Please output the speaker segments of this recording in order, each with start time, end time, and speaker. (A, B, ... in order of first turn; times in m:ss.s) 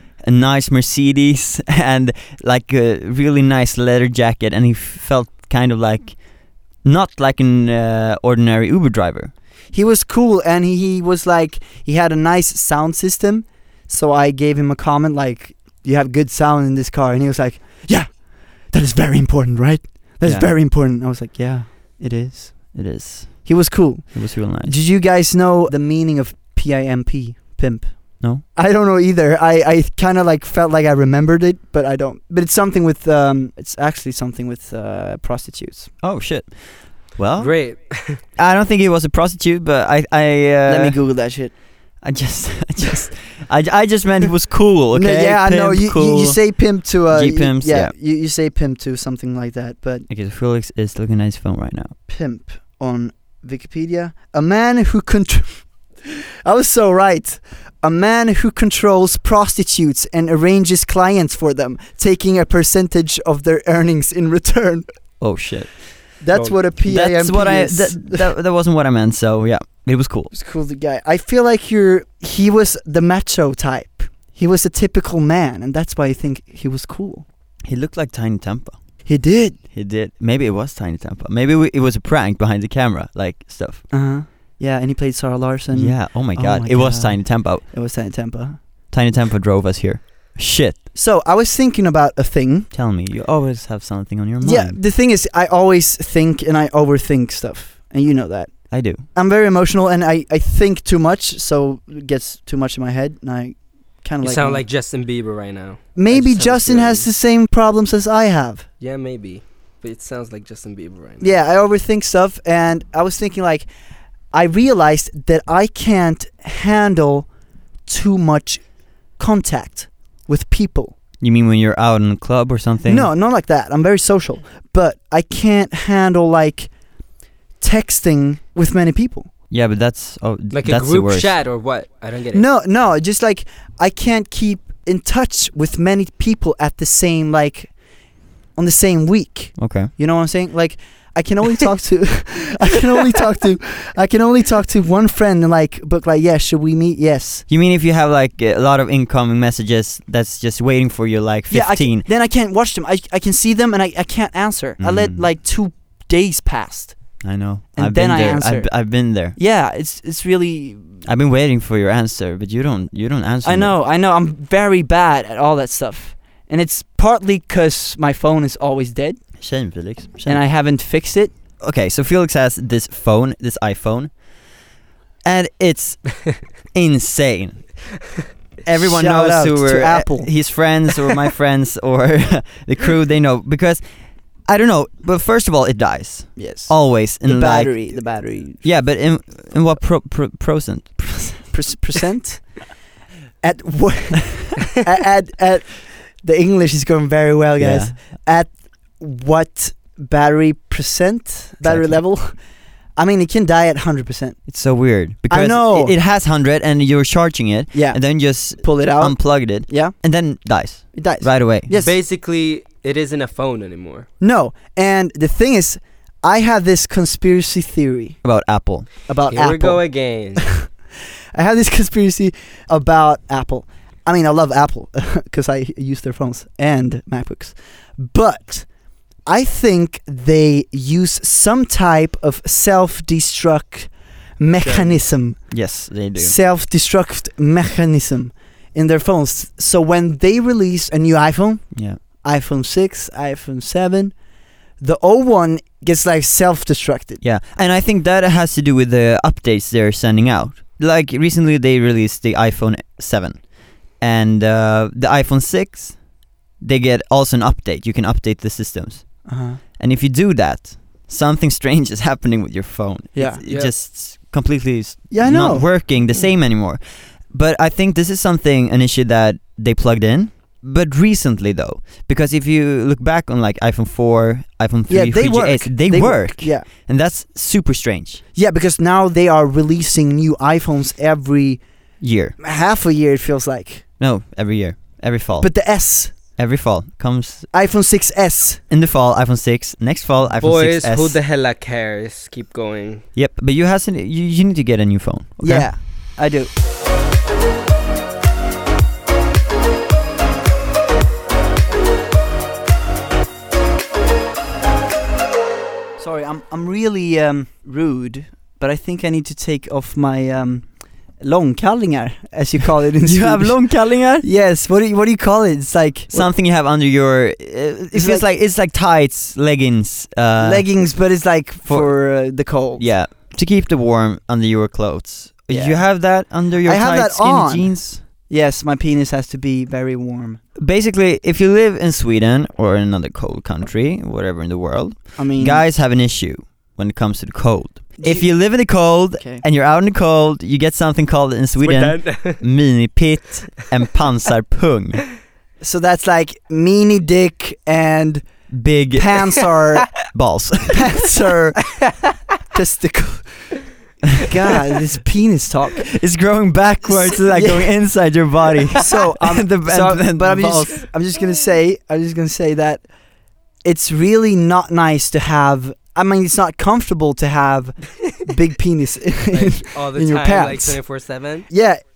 0:00.2-0:06.2 A
0:06.8-0:09.3 A
0:09.7-0:22.8 B
0:20.2-0:20.5 A
0:22.7-0:24.8 A
0:23.4-0:35.9 B
0:36.0-0:36.5 A
0:37.2-0:37.6 A
0:37.4-0:38.2 C
0:38.4-0:41.0 A
0:40.7-0:41.5 B
0:42.0-0:46.4 A
0:44.9-0:50.0 B
0:47.1-0:47.9 A
0:50.1-0:51.9 A
0:52.1-0:55.6 B
0:56.4-1:04.8 B
1:05.2-1:05.8 A
1:06.2-1:08.3 B
1:06.9-1:10.3 A
1:10.3-1:17.3 B
1:17.6-1:18.8 A
1:19.1-1:19.6 B
1:19.7-1:23.8 A
1:23.9-1:28.6 B
1:25.7-1:27.6 A
1:28.9-1:30.8 A
1:31.0-1:32.7 B
1:32.7-1:34.8 A
1:34.4-1:38.5 B
1:38.7-1:39.0 A
1:39.1-1:44.6 B
1:44.2-1:47.1 C
1:46.0-1:48.7 B
1:48.8-1:51.3 C
1:51.2-1:53.7 B
1:54.3-1:57.3 B
1:57.9-1:58.6 B
1:59.2-2:01.0 B
2:01.2-2:03.1 A
2:02.9-2:06.7 B
2:07.6-2:09.3 B
2:09.5-2:11.3 A
2:10.5-2:12.5 C
2:12.3-2:17.7 B
2:18.6-2:27.4 B
2:19.6-2:19.9 A
2:27.5-2:32.1 A
2:31.5-2:37.0 B
2:34.8-2:35.2 A
2:37.2-2:39.4 A
2:37.8-2:38.7 B
2:39.4-2:40.8 B
2:41.0-2:43.7 A
2:43.4-2:49.2 B
2:49.4-2:50.4 A
2:50.3-2:51.3 B
2:51.6-2:54.1 A
2:55.2-2:56.2 A
2:56.7-2:57.7 A
2:58.6-3:03.8 A
2:58.8-3:00.3 B
3:04.5-3:07.7 A
3:06.4-3:06.7 B
3:07.2-3:08.6 B
3:08.6-3:11.4 A
3:11.5-3:12.4 B
3:13.4-3:22.4 B
3:17.6-3:18.0 A
3:21.6-3:22.0 A
3:23.0-3:24.4 B
3:24.5-3:31.7 A
3:25.3-3:25.9 B
3:27.7-3:28.0 B
3:28.6-3:29.9 B
3:30.9-3:32.0 B
3:31.8-3:34.1 C
3:34.2-3:38.2 B
3:38.2-3:38.9 A
3:39.1-3:39.8 B
3:39.3-3:40.4 C
3:40.4-3:40.7 B
3:41.3-3:48.7 B
3:49.3-3:55.4 B
3:54.6-3:55.0 C
3:55.5-3:56.4 A
3:56.2-4:01.6 B
4:01.7-4:02.0 A
4:02.2-4:04.1 B
4:04.8-4:07.2 B
4:07.2-4:13.4 A
4:14.0-4:16.0 A
4:16.6-4:19.2 A
4:19.3-4:19.6 B
4:19.8-4:26.8 A
4:23.2-4:23.4 B
4:25.1-4:25.7 B
4:27.3-4:38.2 A
4:34.9-4:36.7 B
4:38.4-4:41.6 B
4:42.0-4:42.4 A
4:42.4-4:43.8 B
4:44.0-4:45.5 A
4:45.4-4:46.1 B
4:46.4-4:47.5 A
4:47.5-4:48.6 B
4:48.7-4:51.2 A
4:50.4-4:53.0 C
4:53.2-4:55.7 A
4:55.4-4:56.5 B
5:06.0-5:10.7 B
5:11.2-5:16.3 B
5:13.0-5:14.2 A
5:16.1-5:20.7 A
5:17.9-5:18.3 B
5:20.4-5:22.9 B
5:21.7-5:21.9 A
5:22.8-5:28.0 A
5:25.5-5:25.8 B
5:26.6-5:27.7 B
5:28.3-5:30.4 B
5:30.6-5:45.1 A
5:35.2-5:35.7 B
5:38.0-5:38.3 B
5:39.2-5:39.4 B
5:41.6-5:42.4 C
5:45.6-5:48.2 B
5:48.5-5:49.4 A
5:49.0-5:49.9 B
5:50.0-5:51.1 A
5:50.7-5:51.8 B
5:52.5-5:53.5 B
5:54.2-5:55.9 B
5:55.8-6:00.8 A
5:57.1-5:57.7 B
5:58.8-6:02.8 B
6:03.6-6:10.8 B
6:09.3-6:11.5 C
6:11.5-6:11.8 B